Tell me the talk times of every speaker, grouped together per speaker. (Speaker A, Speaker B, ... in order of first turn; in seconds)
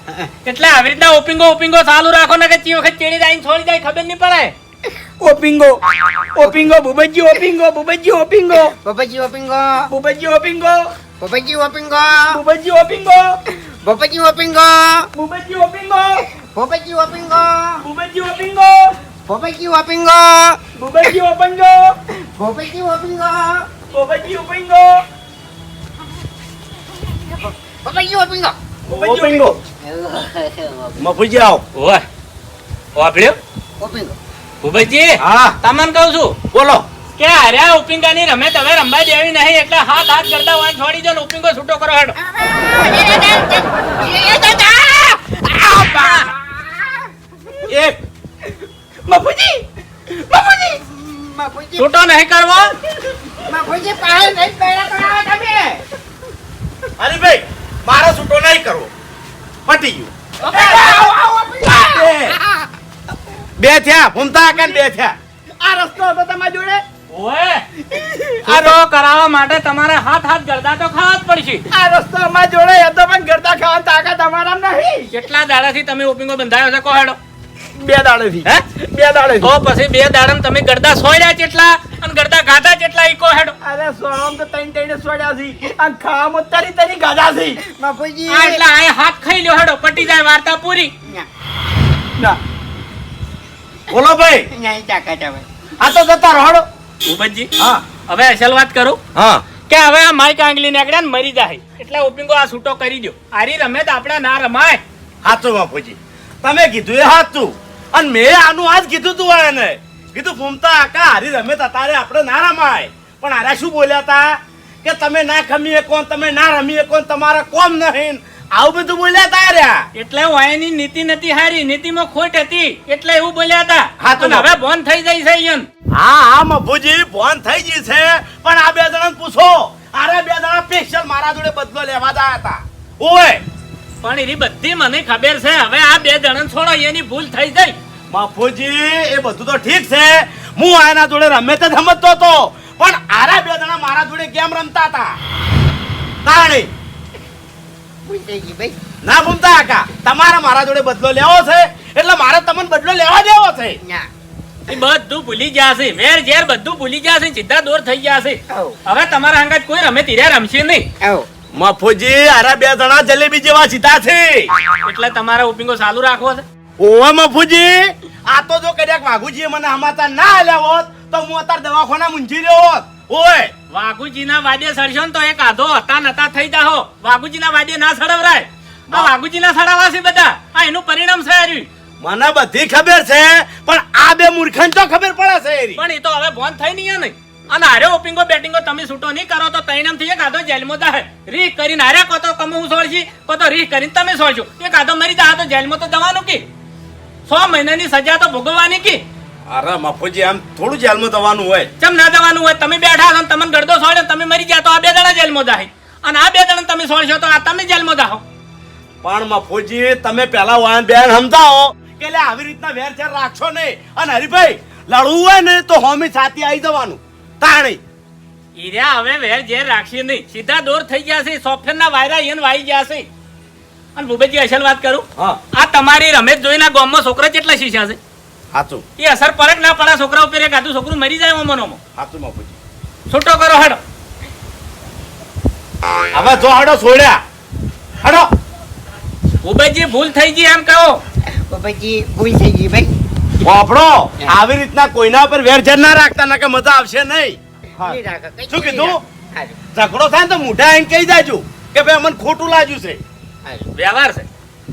Speaker A: 0.4-4.5, 31.8-32.0, 33.0-33.4, 34.6-36.4, 37.2-42.1, 51.8-52.8, 67.1-67.6, 68.4-71.6, 75.1-77.2, 79.4-83.5, 88.3-90.9, 97.0-97.5, 98.1-99.0, 99.7-104.8, 119.9-125.7, 134.0-137.8, 154.7-160.8, 164.8-166.4, 173.7-181.7, 185.8-196.4, 197.3-199.0, 201.8-208.2, 218.5-223.1, 223.9-228.0, 229.0-231.8, 233.1-233.8, 239.4-241.0, 253.8-254.2
Speaker B: 5.2-5.8, 6.3-8.7, 9.9-10.9, 12.3-13.3, 15.1-16.2, 17.8-18.9, 20.8-21.9, 23.9-25.0, 28.9-29.5, 60.5-61.1, 65.6-66.8, 67.9-68.7, 71.7-75.1, 77.8-79.5, 83.6-87.6
Speaker C: 8.8-9.9, 11.2-12.4, 13.8-15.1, 16.5-17.8, 19.2-20.6, 22.2-23.7, 27.1-28.6, 29.8-31.0, 33.8-34.1, 42.2-47.1, 49.1-49.4, 50.3-51.9, 53.4-55.8, 60.4-62.0, 87.7-88.6, 94.5-95.5, 148.0-148.8, 153.8-154.1, 158.5-158.8, 161.0-161.3, 241.5-242.9, 247.8-249.6
Speaker D: 28.9-29.6, 31.0-31.6, 35.2-35.6, 36.5-36.9, 47.7-48.0, 57.0-58.9, 59.6-60.1, 61.6-62.4, 63.6-65.2, 93.9-94.5, 95.8-96.6, 97.6-97.8, 99.1-99.4, 105.2-119.8, 124.0-124.5, 125.9-133.4, 138.1-145.2, 146.2-146.7, 149.0-153.8, 161.5-164.5, 166.8-173.5, 182.0-185.8, 199.5-201.7, 209.0-217.8, 228.5-228.8, 232.0-232.6, 236.1-237.2, 238.0-238.3, 243.4-248.0, 248.5-249.0, 249.7-253.0